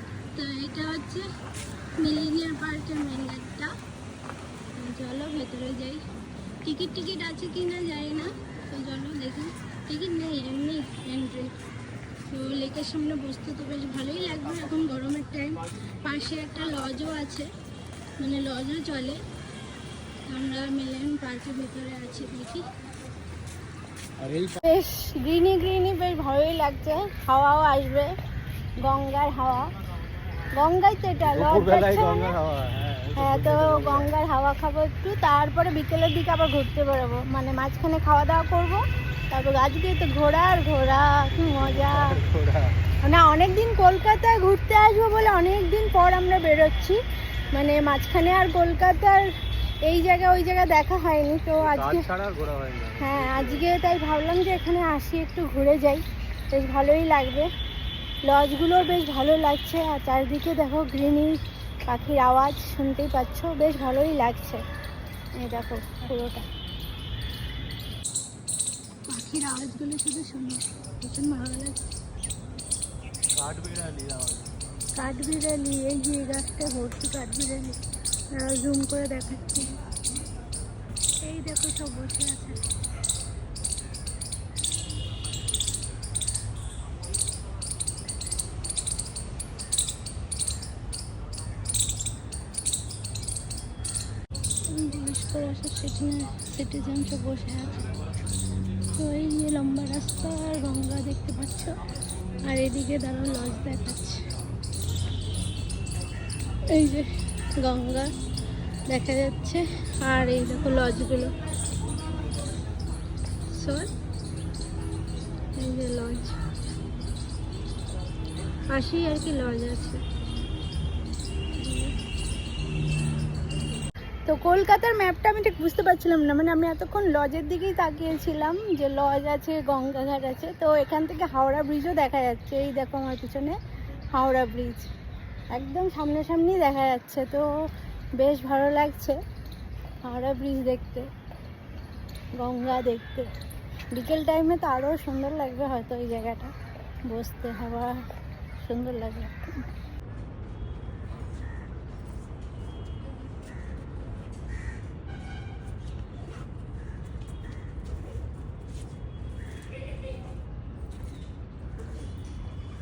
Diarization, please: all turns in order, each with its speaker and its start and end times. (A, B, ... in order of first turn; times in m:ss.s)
0:00.4-0:01.3 A
0:02.0-0:03.7 A
0:04.8-0:06.0 A
0:06.6-0:11.5 A
0:12.3-0:17.5 A
0:18.2-0:19.2 A
0:20.3-0:22.7 A
0:24.2-0:24.6 B
0:24.6-0:28.1 A
0:28.8-0:29.7 A
0:30.5-0:32.4 A
0:31.2-0:34.1 B
0:33.2-0:42.2 A
0:41.3-0:42.8 B
0:43.0-0:47.0 A
0:47.5-0:49.3 A
0:49.8-0:52.1 A
0:51.6-0:53.8 B
0:53.0-0:57.5 A
0:58.3-1:04.6 A
1:05.4-1:06.5 A
1:09.1-1:11.8 A
1:13.3-1:14.5 B
1:15.0-1:17.8 A
1:18.4-1:19.7 A
1:21.2-1:22.6 A
1:34.7-1:37.8 A
1:39.0-1:41.8 A
1:42.5-1:44.2 A
1:46.7-1:48.1 A
1:48.9-1:51.3 A
1:53.5-1:53.9 A
1:55.6-1:56.3 A
1:58.7-2:00.0 A
2:01.6-2:01.9 A
2:04.3-2:13.6 A
2:14.1-2:14.9 A
2:15.5-2:17.7 A
2:18.2-2:19.2 A
2:20.0-2:21.1 A
2:22.4-2:23.3 A
2:23.9-2:26.5 A
2:27.1-2:28.0 A
2:28.6-2:29.6 A